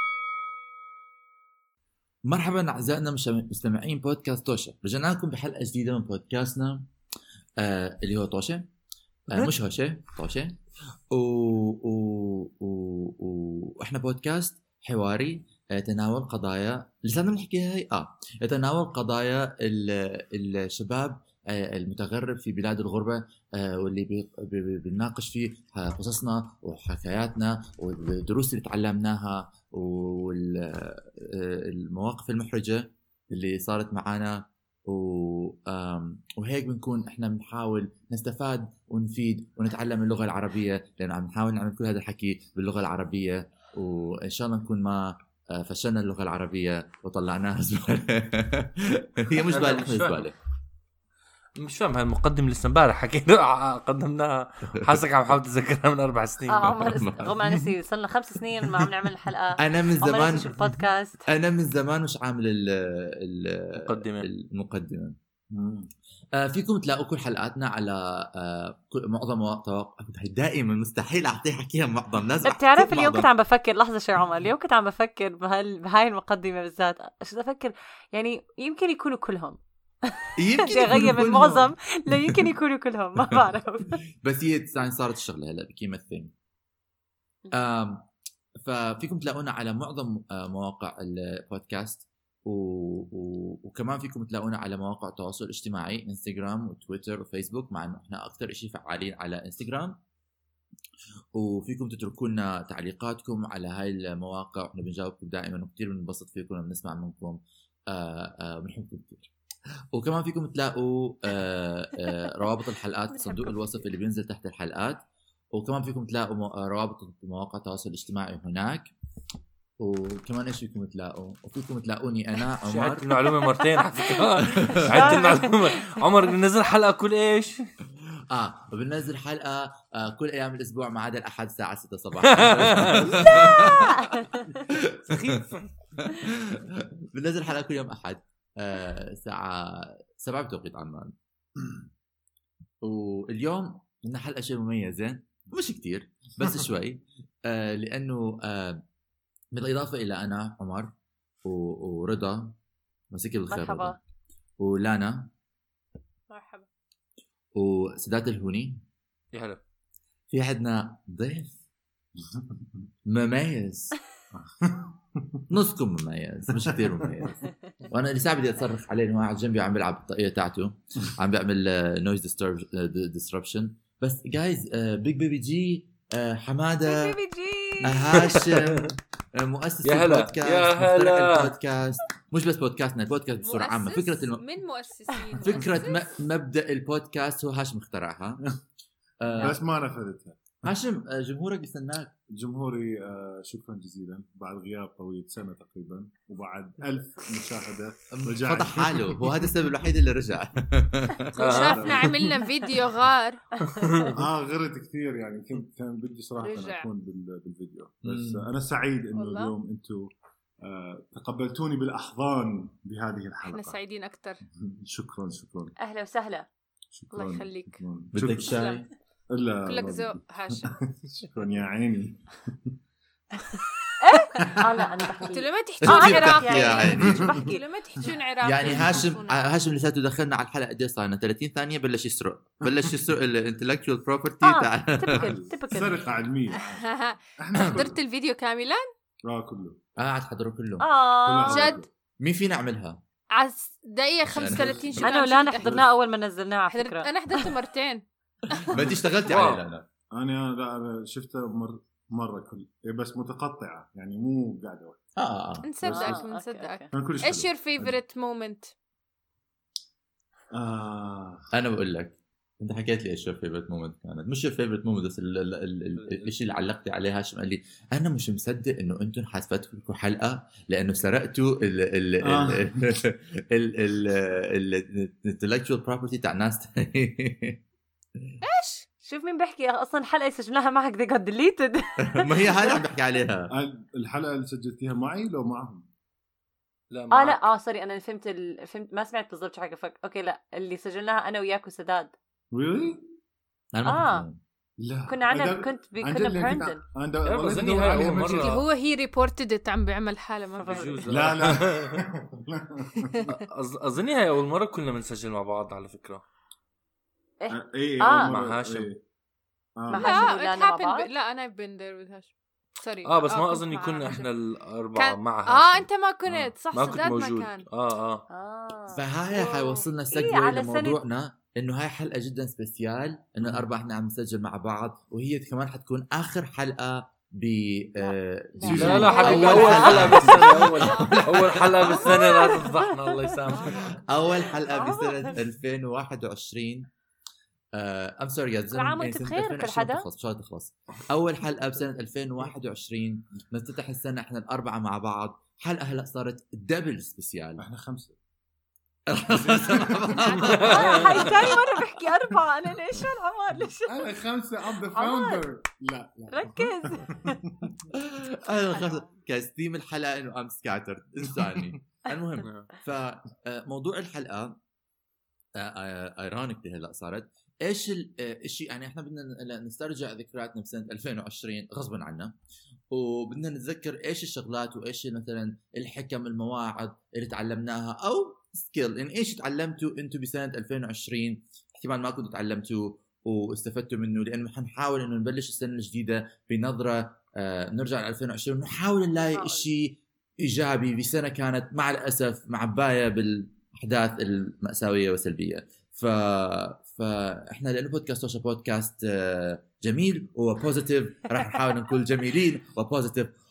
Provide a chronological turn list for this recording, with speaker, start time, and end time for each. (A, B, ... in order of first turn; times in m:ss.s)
0:02.3-0:06.9 A
0:07.6-0:08.7 A
0:09.3-0:10.6 A
0:11.1-0:50.3 A
0:49.5-0:50.3 B
0:51.6-0:57.0 B
0:56.5-1:01.2 C
0:56.8-0:57.3 A
0:59.6-1:00.6 A
1:01.3-1:05.2 A
1:03.8-1:04.3 B
1:05.5-1:05.9 D
1:06.4-1:13.3 A
1:12.4-1:24.0 C
1:20.4-1:21.7 A
1:24.2-1:26.3 A
1:27.5-1:28.1 A
1:28.6-1:40.0 A
1:41.3-1:49.3 A
1:49.9-1:55.0 A
1:53.3-1:53.5 E
1:55.5-1:58.9 A
1:59.8-2:03.1 A
2:02.6-2:07.6 B
2:03.8-2:04.2 C
2:04.7-2:05.7 C
2:08.3-2:13.9 A
2:12.2-2:13.3 B
2:13.3-2:14.5 C
2:14.7-2:15.4 A
2:15.0-2:16.2 B
2:16.0-2:21.1 A
2:22.8-2:28.8 A
2:29.5-2:30.9 A
2:31.4-2:32.6 A
2:33.1-2:34.0 A
2:33.5-2:34.0 C
2:34.6-2:35.3 A
2:36.3-2:36.6 E
2:37.6-2:38.8 A
2:39.3-2:39.6 B
2:40.3-2:41.6 A
2:42.2-2:42.6 D
2:43.1-2:44.0 A
2:44.3-2:45.4 D
2:45.5-2:57.2 A
2:46.9-2:47.2 D
2:56.8-2:58.4 C
2:57.8-3:04.4 A
2:58.3-2:58.8 B
2:59.8-3:01.5 B
3:03.4-3:06.1 E
3:05.4-3:08.4 A
3:09.2-3:09.6 A
3:09.4-3:10.6 D
3:10.6-3:12.1 A
3:12.4-3:19.4 D
3:18.1-3:21.4 A
3:21.4-3:23.4 E
3:21.4-3:22.0 B
3:21.5-3:22.3 D
3:23.6-3:24.1 C
3:23.8-3:24.1 B
3:24.1-3:30.1 D
3:26.4-3:26.9 E
3:28.0-3:28.5 A
3:29.1-3:29.5 E
3:30.6-3:33.8 D
3:33.4-3:34.4 E
3:34.5-3:35.7 D
3:35.8-3:36.5 C
3:36.9-3:38.6 D
3:37.1-3:37.8 E
3:38.1-3:38.8 A
3:38.5-3:38.8 E
3:39.3-3:42.7 D
3:39.6-3:40.8 E
3:43.4-3:44.7 D
3:44.0-3:47.6 C
3:45.3-3:49.4 E
3:45.9-3:47.3 A
3:47.0-3:47.4 D
3:48.4-3:55.3 A
3:48.7-3:49.0 D
3:54.4-3:56.1 C
3:55.1-3:58.0 D
3:56.5-3:58.8 E
3:59.3-3:59.8 D
4:00.0-4:00.8 A
4:00.8-4:01.8 C
4:01.2-4:01.9 D
4:01.4-4:01.8 E
4:02.2-4:03.0 A
4:03.3-4:05.8 E
4:04.3-4:05.0 A
4:04.4-4:05.0 D
4:05.0-4:07.5 C
4:06.7-4:08.8 E
4:08.6-4:09.8 A
4:09.3-4:09.6 B
4:10.1-4:15.0 D
4:15.2-4:15.7 A
4:15.6-4:18.7 E
4:15.8-4:16.2 D
4:15.9-4:16.9 C
4:16.9-4:18.0 D
4:20.5-4:21.4 D
4:21.5-4:37.6 A
4:26.0-4:26.4 B
4:32.2-4:32.8 D
4:38.4-4:38.8 E
4:39.0-4:42.6 C
4:42.1-4:43.5 A
4:43.5-4:45.8 D
4:46.9-4:47.4 B
4:47.1-4:52.1 C
4:52.5-4:53.0 D
4:53.7-4:54.4 A
4:53.8-4:54.2 C
4:54.8-4:58.5 D
4:55.0-4:56.8 C
4:57.2-4:58.6 B
4:58.2-5:01.1 E
5:00.6-5:01.0 C
5:00.6-5:02.0 B
5:01.1-5:03.2 D
5:03.1-5:03.4 E
5:03.3-5:06.2 B
5:07.4-5:08.3 C
5:07.5-5:09.0 D
5:08.0-5:08.9 B
5:09.8-5:10.3 D
5:09.9-5:11.1 C
5:09.9-5:14.3 E
5:13.0-5:18.2 B
5:14.9-5:17.6 E
5:18.3-5:19.0 C
5:18.9-5:32.1 A
5:19.4-5:19.8 E
5:20.1-5:21.0 C
5:28.0-5:30.7 C
5:28.7-5:34.0 B
5:29.0-5:29.9 E
5:30.8-5:31.3 E
5:31.8-5:33.4 C
5:31.9-5:32.3 E
5:33.5-5:34.1 E
5:34.1-5:36.9 A
5:34.7-5:35.3 C
5:37.8-5:47.6 A
5:38.7-5:40.0 C
5:47.6-5:48.1 D
5:49.1-5:51.0 A
5:49.3-5:50.6 D
5:50.1-5:51.4 E
5:50.6-5:54.1 C
5:50.7-5:51.0 B
5:51.2-5:51.6 D
5:53.8-5:57.7 D
5:54.9-5:55.4 C
5:56.3-5:57.4 C
5:57.9-6:04.6 A
6:05.6-6:12.4 A
6:12.9-6:43.3 A
6:29.2-6:29.6 C